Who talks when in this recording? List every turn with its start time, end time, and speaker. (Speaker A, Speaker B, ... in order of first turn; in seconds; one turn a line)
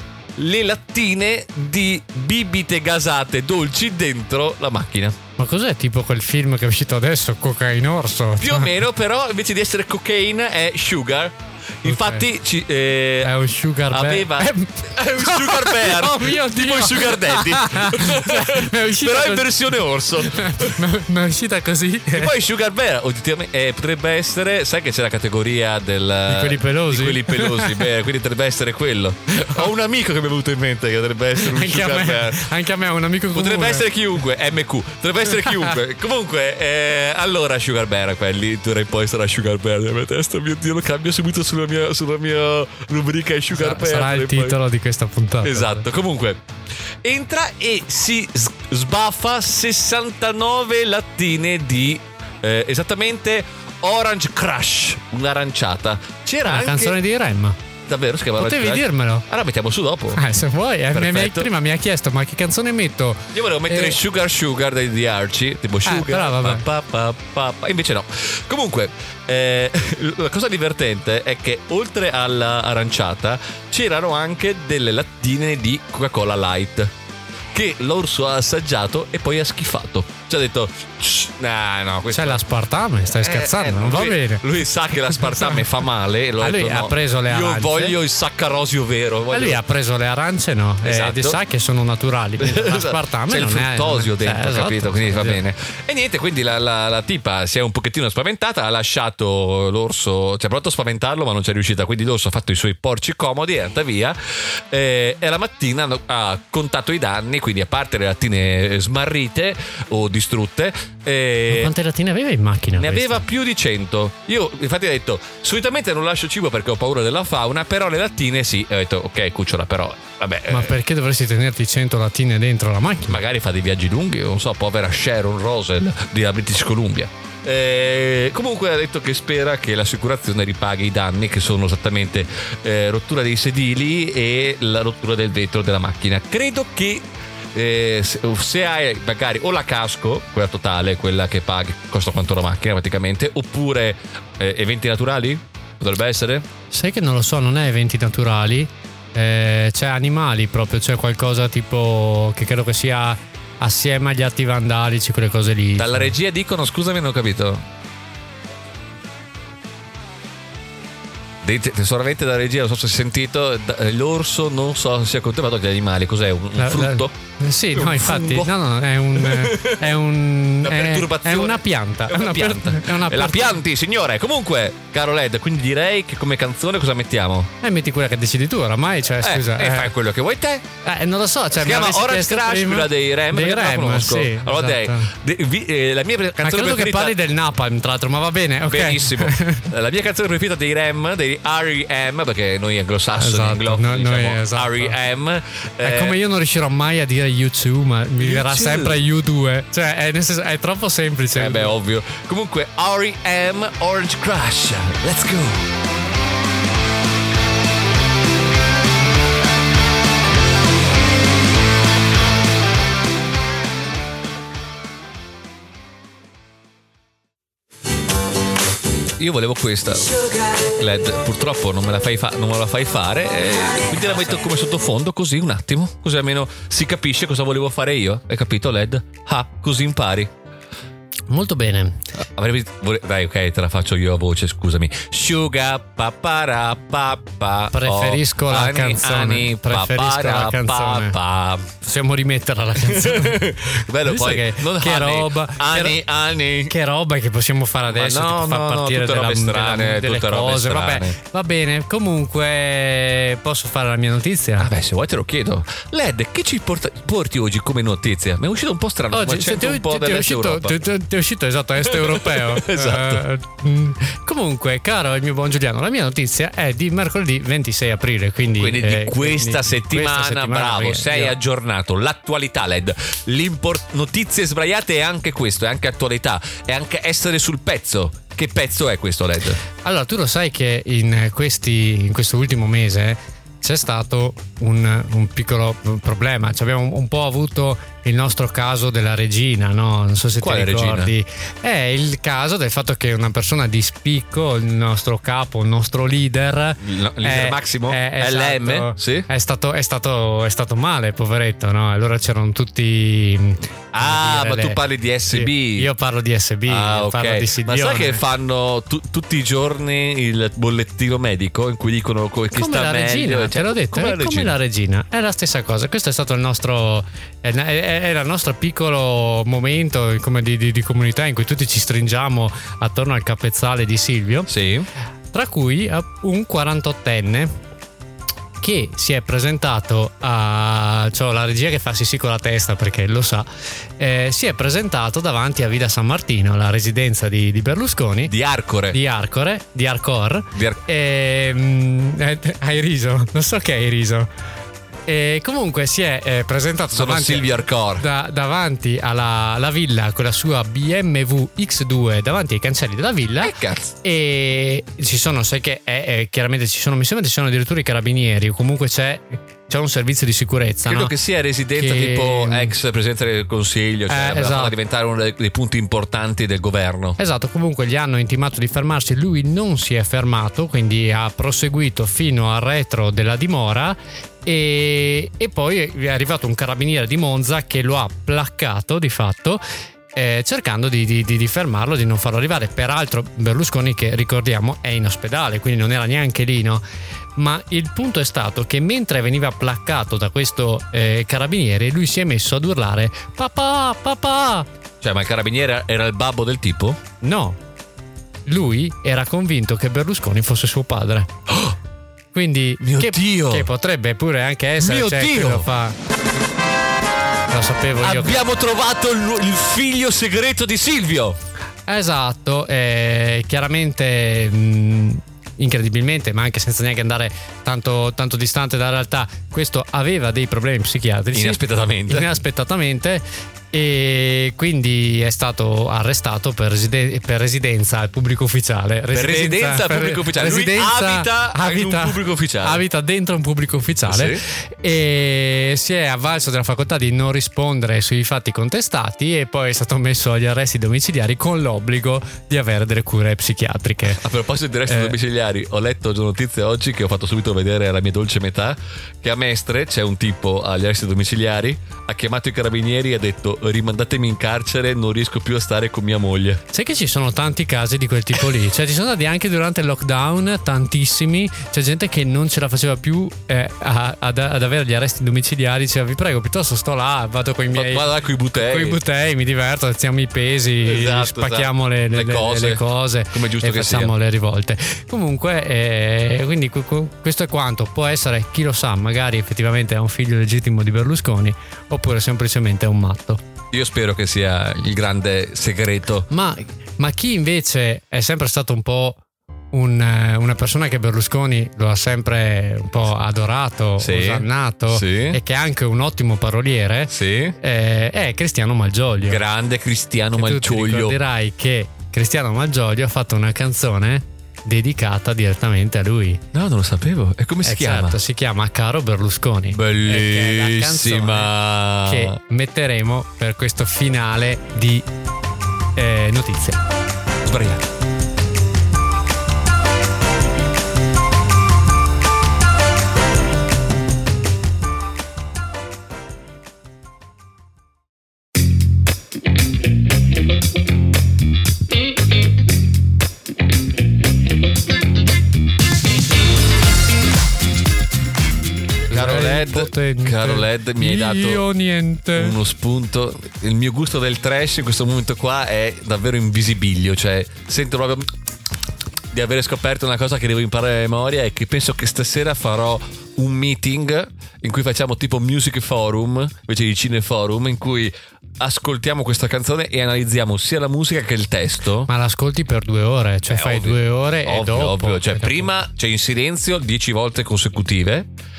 Speaker A: 0.4-5.2
Speaker B: 5.4-8.7
Speaker A: 8.4-20.8
Speaker B: 11.8-12.2
Speaker B: 13.2-19.5
Speaker B: 20.2-22.3
Speaker A: 22.1-32.5
Speaker B: 26.3-27.9
Speaker B: 31.4-33.9
Speaker A: 33.3-44.6
Speaker B: 35.4-35.7
Speaker B: 43.5-45.9
Speaker A: 45.4-46.4
Speaker A: 47.0-57.0
Speaker B: 56.5-57.6
Speaker A: 57.9-60.2
Speaker B: 58.4-59.2
Speaker B: 60.1-64.0
Speaker A: 60.9-61.5
Speaker A: 63.3-76.9
Speaker B: 65.8-66.7
Speaker A: 77.5-82.4
Speaker B: 82.1-84.4
Speaker A: 83.0-89.6
Speaker B: 85.2-85.7
Speaker B: 86.4-88.0
Speaker B: 89.3-95.4
Speaker A: 90.8-91.4
Speaker A: 92.4-111.7
Speaker B: 111.5-113.2
Speaker A: 112.8-120.8
Speaker B: 120.5-123.2
Speaker A: 123.1-146.5
Speaker B: 146.7-156.1
Speaker A: 155.8-157.7
Speaker A: 161.4-167.1
Speaker B: 166.6-173.6
Speaker A: 167.7-168.5
Speaker A: 169.1-169.9
Speaker A: 170.6-177.5
Speaker B: 177.6-179.9
Speaker A: 179.2-180.6
Speaker B: 180.8-185.1
Speaker A: 181.5-187.1
Speaker B: 186.4-189.7
Speaker A: 188.7-196.2
Speaker B: 193.1-195.0
Speaker B: 195.8-201.7
Speaker A: 198.2-199.0
Speaker A: 201.3-205.7
Speaker A: 219.2-230.3
Speaker B: 231.3-232.0
Speaker A: 232.2-241.7
Speaker B: 237.7-241.2
Speaker B: 241.8-246.0
Speaker A: 242.8-246.7
Speaker B: 246.7-254.7
Speaker A: 247.9-251.2
Speaker A: 254.6-260.8
Speaker B: 259.1-271.3
Speaker A: 261.8-263.2
Speaker A: 268.6-279.6
Speaker B: 279.8-304.8
Speaker A: 290.4-291.1
Speaker A: 296.8-299.3
Speaker A: 303.9-305.9
Speaker B: 305.3-308.2
Speaker A: 306.7-314.6
Speaker B: 312.5-324.5
Speaker A: 324.5-324.9
Speaker B: 325.3-327.5
Speaker B: 328.6-333.4
Speaker B: 334.0-338.3
Speaker A: 338.3-339.0
Speaker B: 338.9-344.3
Speaker A: 340.5-340.8
Speaker B: 345.1-361.1
Speaker A: 346.9-348.0
Speaker A: 353.4-353.9
Speaker A: 360.9-367.2
Speaker B: 361.7-362.7
Speaker B: 364.1-364.8
Speaker B: 367.2-379.6
Speaker B: 380.1-386.8
Speaker B: 387.4-394.7
Speaker A: 395.0-397.0
Speaker B: 397.2-397.6
Speaker B: 398.5-401.3
Speaker A: 401.5-401.7
Speaker B: 402.3-405.9
Speaker A: 402.8-403.7
Speaker A: 404.8-405.7
Speaker B: 407.5-408.4
Speaker A: 408.0-411.4
Speaker B: 411.9-444.2
Speaker A: 421.3-422.3
Speaker A: 429.1-432.8
Speaker A: 434.1-434.4
Speaker A: 444.1-456.6
Speaker B: 444.9-445.1
Speaker B: 456.7-483.4
Speaker A: 467.7-469.0
Speaker A: 470.8-474.1
Speaker A: 483.7-486.3
Speaker B: 486.3-489.2
Speaker B: 489.7-499.4
Speaker A: 494.0-495.4
Speaker A: 497.1-497.6
Speaker A: 499.2-501.1
Speaker B: 500.3-506.4
Speaker A: 506.5-508.2
Speaker B: 507.6-515.1
Speaker A: 509.7-512.4
Speaker B: 516.0-516.8
Speaker A: 517.4-517.9
Speaker B: 539.1-542.6
Speaker A: 539.1-541.6
Speaker A: 542.4-548.3
Speaker A: 549.3-562.1
Speaker B: 562.1-565.7
Speaker A: 563.5-568.3